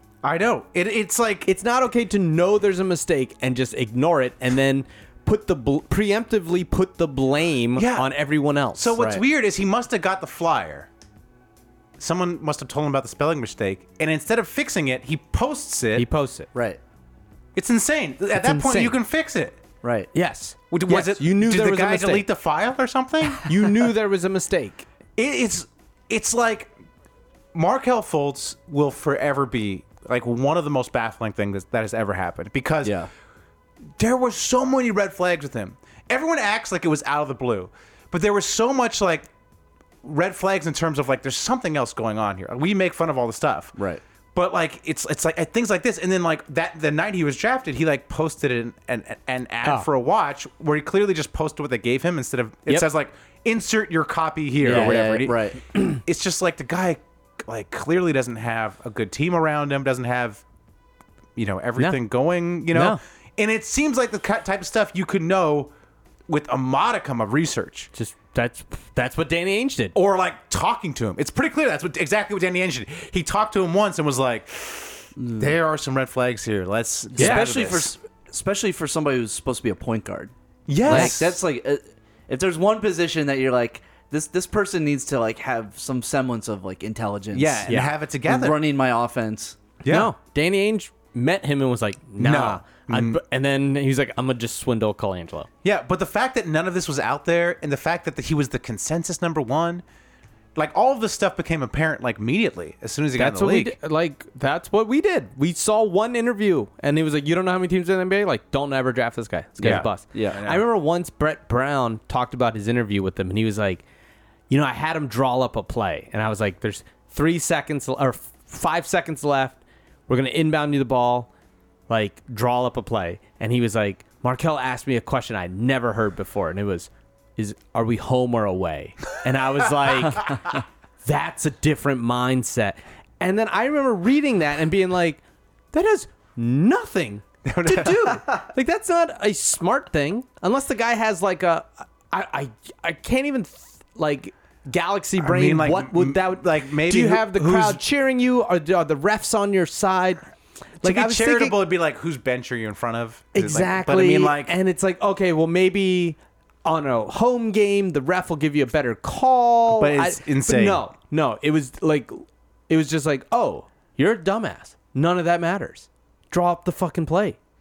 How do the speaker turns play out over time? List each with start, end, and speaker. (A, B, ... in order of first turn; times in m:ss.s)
0:00.2-0:01.5 A
0:01.5-0:09.0 B
0:07.8-0:08.1 A
0:08.7-0:10.9 A
0:09.0-0:09.2 C
0:12.0-0:16.1 A
0:16.0-0:16.5 B
0:16.5-0:16.8 C
0:17.6-0:19.6 A
0:18.4-0:19.0 B
0:19.8-0:20.1 C
0:20.1-0:22.3 B
0:20.7-0:23.5 A
0:23.4-0:24.9 B
0:25.2-0:26.7 A
0:27.5-0:33.0 A
0:32.8-0:33.1 C
0:34.0-0:39.3 A
0:40.0-0:43.7 A
0:43.8-0:44.0 C
0:44.4-1:00.4 A
0:54.6-0:55.6 C
0:54.7-0:55.0 B
1:01.4-1:05.7 A
1:02.7-1:03.0 B
1:06.3-1:07.9 A
1:07.9-1:10.0 B
1:10.0-1:17.9 A
1:15.2-1:15.5 C
1:17.1-1:20.3 C
1:17.2-1:17.4 B
1:20.7-1:21.4 A
1:20.8-1:29.6 C
1:20.9-1:21.2 B
1:27.3-1:28.6 A
1:29.8-1:30.1 A
1:29.9-1:35.5 B
1:32.2-1:33.2 A
1:35.6-1:39.8 A
1:40.6-1:43.8 A
1:43.2-1:53.8 B
1:49.6-1:50.6 A
1:50.1-1:50.4 C
1:54.5-2:01.3 B
2:01.9-2:15.2 B
2:15.7-2:30.2 B
2:17.4-2:18.2 A
2:17.7-2:18.3 C
2:25.2-2:27.8 A
2:30.8-2:31.6 B
2:30.8-2:34.5 A
2:33.3-2:47.4 B
2:39.7-2:40.8 A